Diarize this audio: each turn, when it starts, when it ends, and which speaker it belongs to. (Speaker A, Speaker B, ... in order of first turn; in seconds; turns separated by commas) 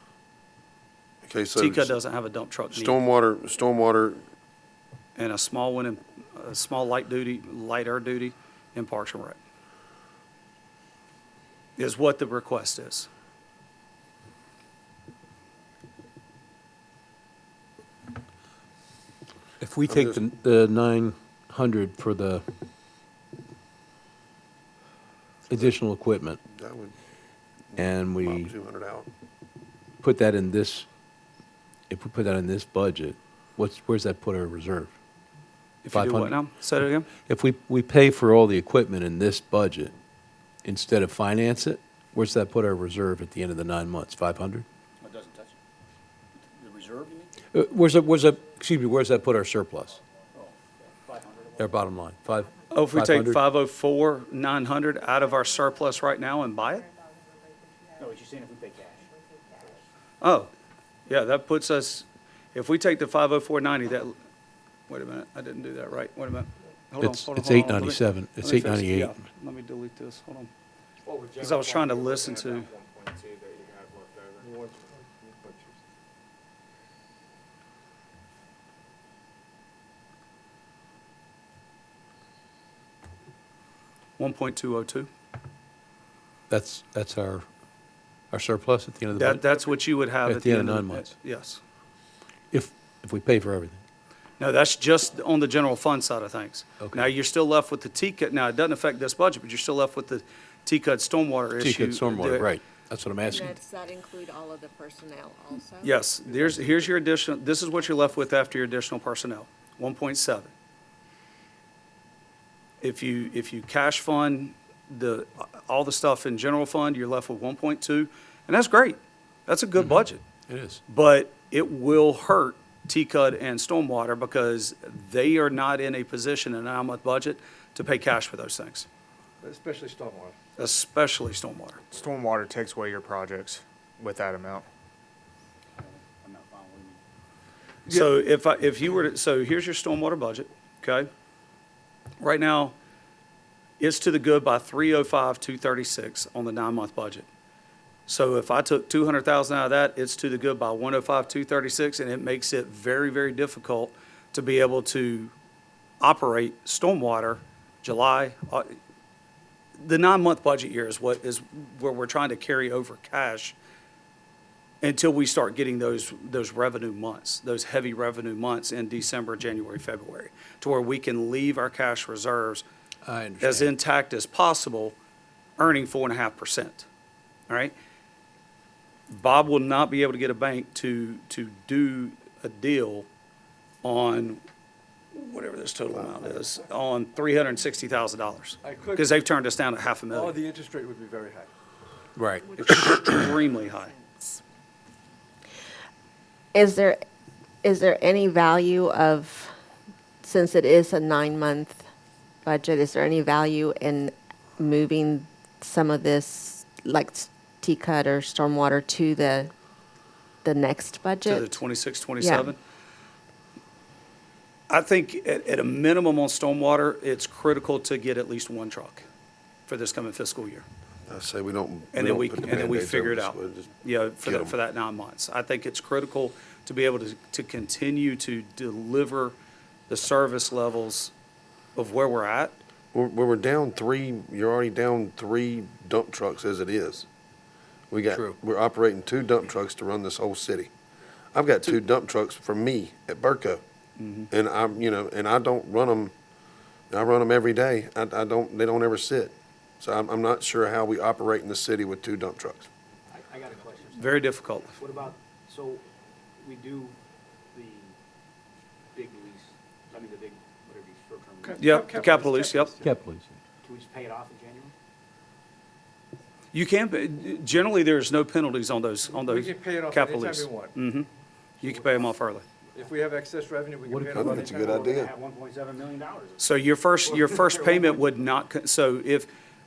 Speaker A: 1.2-2.0, Speaker B: 1.5-3.0, Speaker A: 2.7-4.2, Speaker B: 5.2-9.4, Speaker B: 11.8-13.1, Speaker C: 19.6-22.4, Speaker A: 19.9-20.2, Speaker C: 25.5-26.4, Speaker A: 26.5-26.9, Speaker A: 27.8-29.1, Speaker C: 27.8-28.5, Speaker C: 30.0-30.9, Speaker C: 31.9-34.9, Speaker B: 35.8-37.1, Speaker C: 35.9-36.4, Speaker C: 37.1-39.9, Speaker C: 40.6-44.6, Speaker D: 45.0-45.5, Speaker D: 46.4-47.3, Speaker C: 47.5-50.0, Speaker D: 50.3-51.8, Speaker C: 51.6-53.4, Speaker B: 52.7-56.9, Speaker D: 57.9-59.8, Speaker B: 60.2-60.5, Speaker B: 61.1-64.2, Speaker B: 64.9-70.5, Speaker C: 67.0-69.2, Speaker E: 71.1-71.8, Speaker B: 71.4-72.7, Speaker F: 72.0-72.3, Speaker E: 74.3-75.8, Speaker B: 84.2-85.1, Speaker C: 86.5-87.5, Speaker C: 88.3-89.6, Speaker B: 89.1-91.6, Speaker C: 90.2-91.1, Speaker C: 92.5-93.8, Speaker B: 94.4-102.5, Speaker C: 101.6-103.5, Speaker G: 103.2-105.9, Speaker B: 105.8-110.5, Speaker B: 112.8-120.2, Speaker C: 119.8-120.8, Speaker B: 120.8-128.9, Speaker E: 129.4-130.3, Speaker B: 130.6-131.8, Speaker F: 131.9-134.7, Speaker D: 135.8-137.0, Speaker B: 137.9-141.1, Speaker B: 142.2-142.7, Speaker B: 143.8-147.3, Speaker B: 148.1-155.3, Speaker B: 156.0-158.7, Speaker B: 159.8-163.6, Speaker B: 164.8-172.6, Speaker C: 173.1-173.7, Speaker B: 173.4-174.9, Speaker B: 175.6-176.9, Speaker B: 177.5-177.7, Speaker B: 179.1-183.1, Speaker B: 183.8-184.4, Speaker B: 185.1-190.4, Speaker A: 185.9-186.4, Speaker E: 188.6-189.1, Speaker E: 190.1-191.5, Speaker C: 192.2-193.2, Speaker B: 192.5-193.9, Speaker G: 196.5-197.0, Speaker G: 197.6-199.5, Speaker G: 200.2-201.8, Speaker G: 202.4-209.5, Speaker G: 210.4-211.5, Speaker B: 211.2-212.6, Speaker G: 212.2-212.5, Speaker B: 214.7-219.1, Speaker B: 219.7-220.7, Speaker A: 221.1-223.7, Speaker B: 221.9-229.4, Speaker A: 224.2-224.6, Speaker B: 229.9-231.1, Speaker B: 231.7-232.6, Speaker A: 232.9-237.1, Speaker A: 237.9-240.7, Speaker A: 241.3-243.6, Speaker B: 244.0-244.3, Speaker A: 244.3-246.1, Speaker A: 246.9-252.7, Speaker D: 253.1-255.8, Speaker B: 254.0-254.8, Speaker D: 256.4-256.9, Speaker D: 257.5-257.9, Speaker D: 258.9-261.7, Speaker E: 261.4-262.9, Speaker B: 261.6-262.8, Speaker C: 262.8-263.3, Speaker D: 263.6-264.7, Speaker B: 266.5-271.1, Speaker E: 269.1-270.8, Speaker D: 271.6-272.1, Speaker B: 271.6-272.4, Speaker E: 272.7-274.8, Speaker D: 273.9-276.5, Speaker A: 274.1-275.1, Speaker B: 276.4-279.3, Speaker D: 277.0-278.2